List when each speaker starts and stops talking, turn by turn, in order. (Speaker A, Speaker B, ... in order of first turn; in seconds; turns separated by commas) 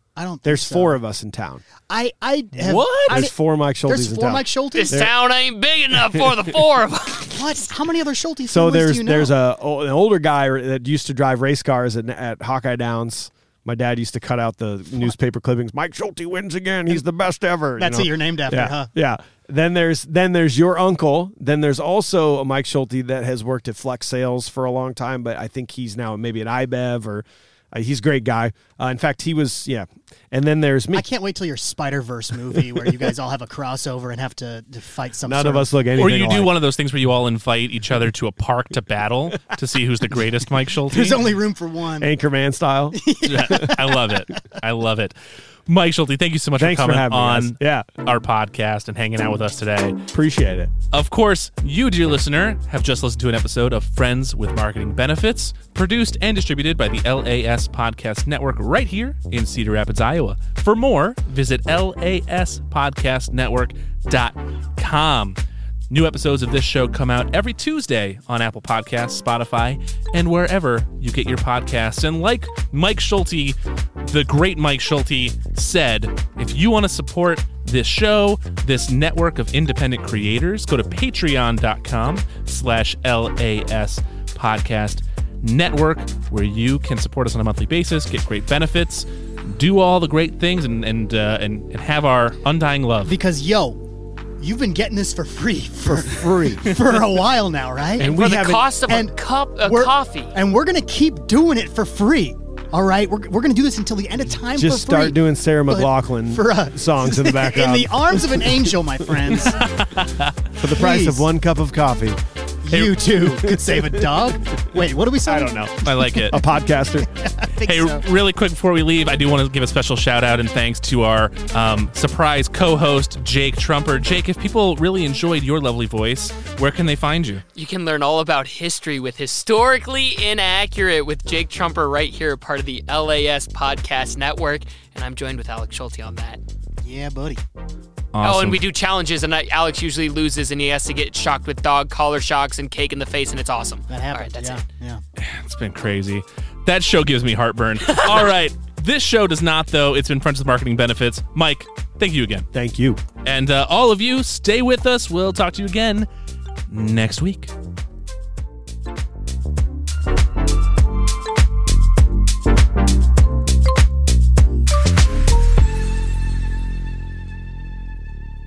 Speaker A: 0.1-1.0, Speaker B: 0.4-1.6, Speaker A: 1.9-5.0, Speaker C: 2.7-3.0, Speaker B: 2.7-5.1, Speaker D: 2.8-3.1, Speaker C: 4.7-7.4, Speaker B: 5.9-6.3, Speaker A: 7.3-9.3, Speaker B: 8.5-31.0, Speaker A: 17.8-18.9, Speaker A: 30.9-35.7, Speaker B: 35.2-36.5, Speaker D: 36.0-41.2, Speaker B: 40.9-41.3, Speaker A: 40.9-42.1, Speaker B: 42.0-43.7, Speaker A: 42.9-44.4, Speaker D: 43.2-45.1, Speaker D: 45.7-50.0, Speaker B: 46.6-47.9, Speaker B: 50.1-50.7, Speaker D: 50.9-65.4, Speaker D: 65.9-93.1, Speaker A: 93.0-98.1, Speaker B: 95.8-96.8, Speaker B: 98.0-98.7, Speaker C: 98.0-100.3, Speaker A: 98.9-109.6, Speaker B: 104.5-109.5, Speaker D: 109.4-110.3, Speaker B: 110.6-112.2, Speaker A: 110.7-111.3, Speaker A: 112.6-116.2, Speaker B: 113.5-114.3, Speaker B: 115.3-117.1, Speaker D: 115.8-116.4, Speaker A: 117.2-118.0, Speaker D: 117.6-127.4, Speaker C: 127.5-136.4, Speaker A: 136.8-137.4, Speaker D: 138.1-138.6, Speaker C: 138.2-144.6, Speaker A: 143.9-145.0, Speaker D: 145.2-152.5, Speaker B: 152.5-153.0, Speaker D: 153.2-156.1, Speaker D: 156.7-157.5